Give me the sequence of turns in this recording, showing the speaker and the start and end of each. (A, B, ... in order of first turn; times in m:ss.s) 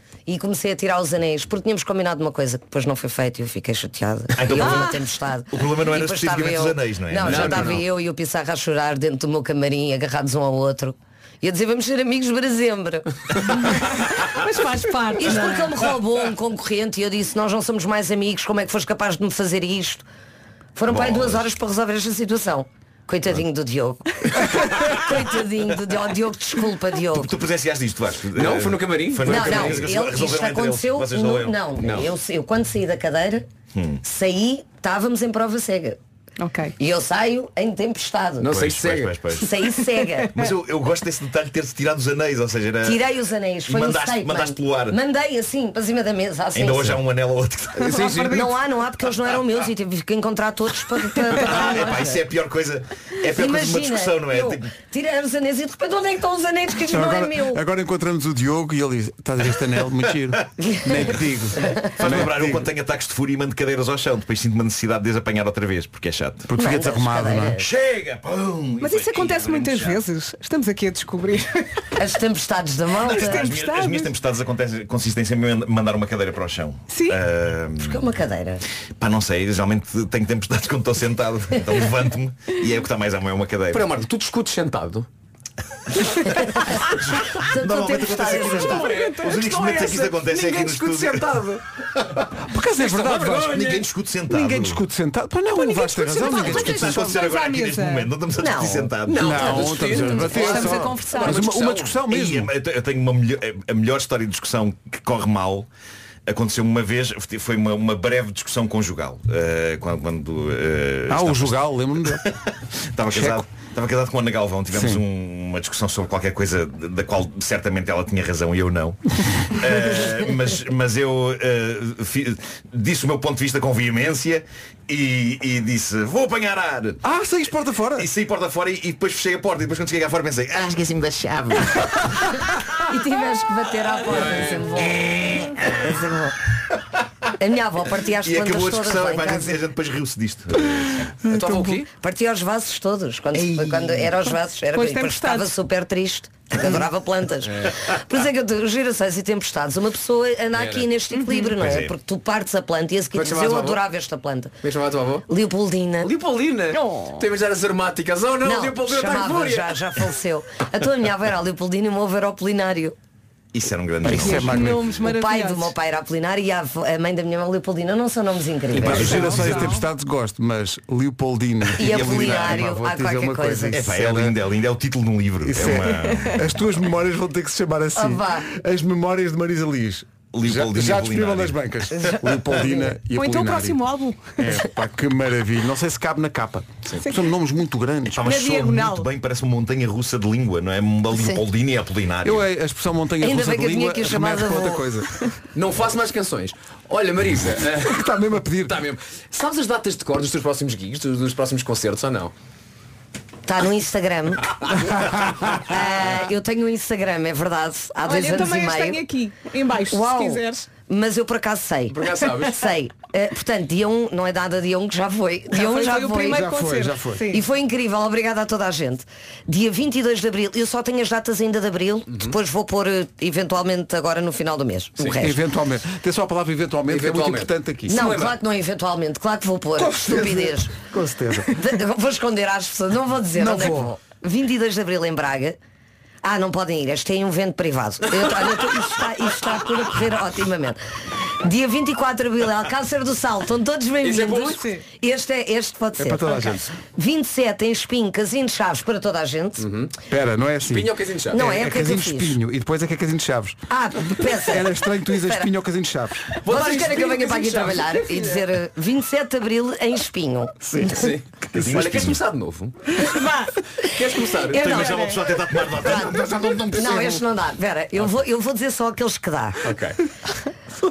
0:00.3-0:14.0 A
0:04.4-0:05.0 B
0:04.6-0:05.0 C
0:05.5-0:07.8 B
0:07.2-0:07.8 D
0:13.4-0:15.8 C
0:15.2-0:20.0 A
0:20.8-0:27.4 A
0:20.9-0:21.4 B
0:27.1-0:31.7 B
0:28.4-0:29.9 D
0:29.2-0:33.4 A
0:31.8-0:32.1 D
0:33.7-0:34.0 B
0:34.0-0:36.0 A
0:36.4-0:36.7 C
0:36.8-0:38.6 A
0:38.4-0:39.2 D
0:38.5-0:39.5 B
0:39.3-0:40.4 A
0:40.3-0:43.0 B
0:42.8-0:47.0 A
0:43.7-0:45.0 B
0:46.6-0:48.2 B
0:47.8-0:48.5 D
0:47.9-0:52.3 A
0:51.3-0:54.7 B
0:53.2-0:57.6 A
0:56.9-1:02.7 E
1:00.6-1:02.0 A
1:02.0-1:06.6 B
1:06.5-1:07.6 E
1:06.5-1:07.7 A
1:07.6-1:10.0 B
1:08.8-1:11.8 C
1:11.9-1:13.6 A
1:13.0-1:14.1 C
1:13.0-1:18.0 B
1:16.9-1:17.2 C
1:17.8-1:18.6 A
1:19.0-1:23.9 B
1:23.7-1:25.1 D
1:26.2-1:29.0 A
1:27.1-1:31.5 B
1:28.0-1:31.6 D
1:28.7-1:29.4 C
1:32.4-1:33.7 E
1:32.8-1:33.9 D
1:33.5-1:34.8 B
1:34.3-1:37.2 E
1:35.6-1:38.1 C
1:36.3-1:39.8 B
1:36.3-1:36.7 D
1:38.4-1:39.0 A
1:39.0-1:42.0 D
1:39.2-1:42.5 E
1:39.8-1:41.4 C
1:42.1-1:45.7 B
1:46.3-2:07.0 B
1:51.1-1:52.3 E
1:53.1-1:53.4 E
1:54.7-1:55.0 E
2:07.0-2:08.1 E
2:08.0-2:11.7 B
2:12.8-2:16.4 A
2:14.1-2:14.8 D
2:15.0-2:15.9 B
2:17.4-2:19.6 A
2:18.2-2:21.1 B
2:20.8-2:21.8 E
2:21.3-2:21.9 D
2:21.9-2:34.5 A
2:24.7-2:25.5 C
2:30.6-2:30.9 D
2:31.1-2:31.5 C
2:31.6-2:31.9 B
2:33.1-2:33.8 D
2:34.6-2:35.3 D
2:35.3-2:36.1 A
2:36.0-2:39.8 D
2:36.7-2:37.2 C
2:38.4-2:43.0 A
2:43.5-2:44.6 B
2:44.0-2:44.9 E
2:44.2-2:45.7 C
2:44.9-2:49.4 A
2:48.7-2:49.6 D
2:48.8-2:54.4 E
2:48.8-2:49.7 B
2:49.0-2:49.8 C
2:51.8-2:53.9 A
2:51.8-2:52.7 B
2:53.7-2:56.4 B
2:55.4-3:03.8 E
2:58.0-2:58.5 A
3:00.3-3:01.6 B
3:01.9-3:03.0 A
3:03.1-3:04.6 C
3:04.4-3:08.2 E
3:08.1-3:12.4 B
3:08.2-3:09.1 C
3:12.2-3:15.1 E
3:13.2-3:15.0 A
3:15.5-3:22.3 D
3:17.8-3:18.8 E
3:23.4-3:24.6 A
3:24.6-3:25.0 D
3:25.5-3:29.1 A
3:28.0-3:30.7 C
3:29.8-3:36.5 A
3:31.9-3:32.7 D
3:35.5-3:37.4 C
3:36.2-3:37.3 E
3:37.3-3:45.4 A
3:42.1-3:42.4 D
3:45.0-3:45.3 D
3:45.2-3:48.1 E
3:46.9-3:48.4 D
3:47.9-3:50.8 A
3:49.8-3:51.6 E
3:51.5-3:55.6 A
3:53.4-3:53.9 E
3:56.2-4:00.8 A
4:01.4-4:09.7 A
4:04.0-4:04.6 D
4:04.4-4:04.8 C
4:06.0-4:06.7 E
4:09.6-4:09.9 D
4:10.1-4:16.4 E
4:10.7-4:11.5 D
4:11.3-4:12.4 A
4:13.7-4:15.5 A
4:16.4-4:18.1 D
4:16.4-4:20.6 A
4:20.6-4:22.2 E
4:20.9-4:23.1 D
4:21.7-4:22.2 B
4:23.0-4:23.5 C
4:23.8-4:24.9 D
4:24.5-4:29.7 A
4:24.6-4:26.3 B
4:24.6-4:25.2 C
4:25.8-4:27.2 E
4:29.6-4:30.0 D